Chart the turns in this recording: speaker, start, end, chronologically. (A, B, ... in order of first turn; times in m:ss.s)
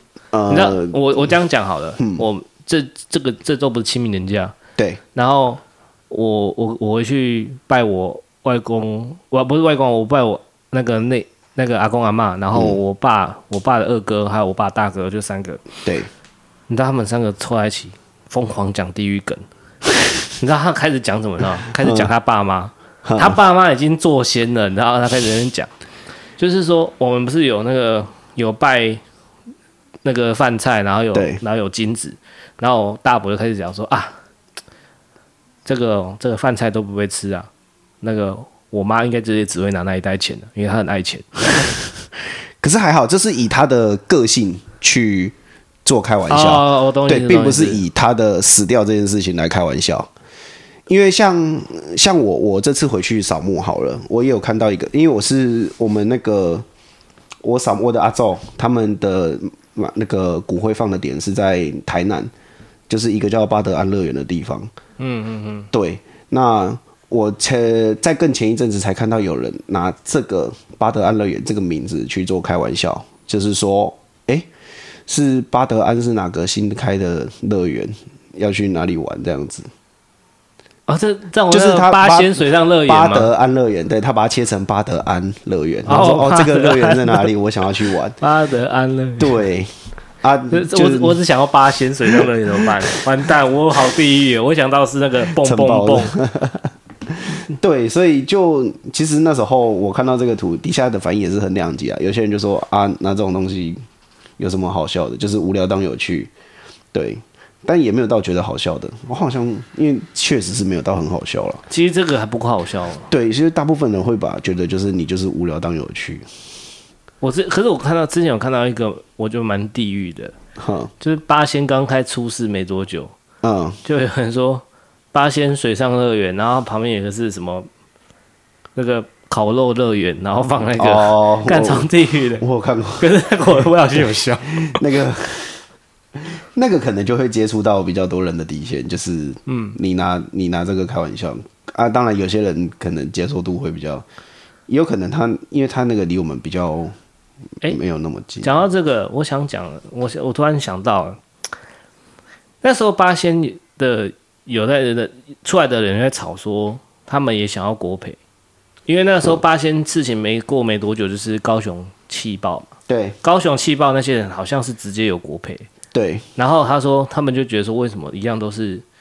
0:00.3-0:01.3 A
0:00.5-0:04.5 B
0:02.0-0:02.2 A
0:05.1-0:15.6 B
0:15.8-0:16.1 A
0:16.7-0:19.4 B
0:20.4-0:25.7 B
0:21.7-0:22.1 A
0:23.0-0:23.4 A
0:26.4-0:29.0 B
0:30.0-0:34.1 B
0:31.1-0:31.4 A
0:35.6-0:37.5 B
0:38.0-0:41.7 B
0:42.6-0:50.1 A
0:46.3-0:47.8 B
0:50.9-0:56.6 A
0:57.4-1:02.3 A
1:02.9-1:04.7 A
1:05.0-1:05.7 B
1:05.7-1:14.5 A
1:15.1-1:19.7 A
1:20.9-1:23.3 B
1:21.5-1:28.2 A
1:25.8-1:27.3 B
1:28.2-1:29.4 B
1:29.2-1:31.2 A
1:30.5-1:36.1 B
1:32.1-1:32.6 A
1:35.3-1:43.8 A
1:44.4-1:46.3 A
1:46.9-1:51.6 A
1:51.7-1:53.1 B
1:53.1-1:56.3 A
1:57.2-2:00.3 B
2:00.6-2:00.9 A
2:01.0-2:03.1 B
2:03.4-2:03.8 A
2:03.8-2:07.7 B
2:08.8-2:12.4 B
2:10.8-2:11.9 A
2:12.4-2:13.1 A
2:13.0-2:14.8 B
2:14.6-2:15.6 A
2:16.5-2:24.0 A
2:19.5-2:19.8 B
2:24.7-2:26.9 A
2:27.6-2:28.6 A
2:28.4-2:31.2 B
2:32.6-2:38.2 B
2:38.9-2:42.7 B
2:42.9-2:43.2 A
2:43.2-2:45.7 B
2:45.9-2:46.2 A
2:46.4-2:48.8 B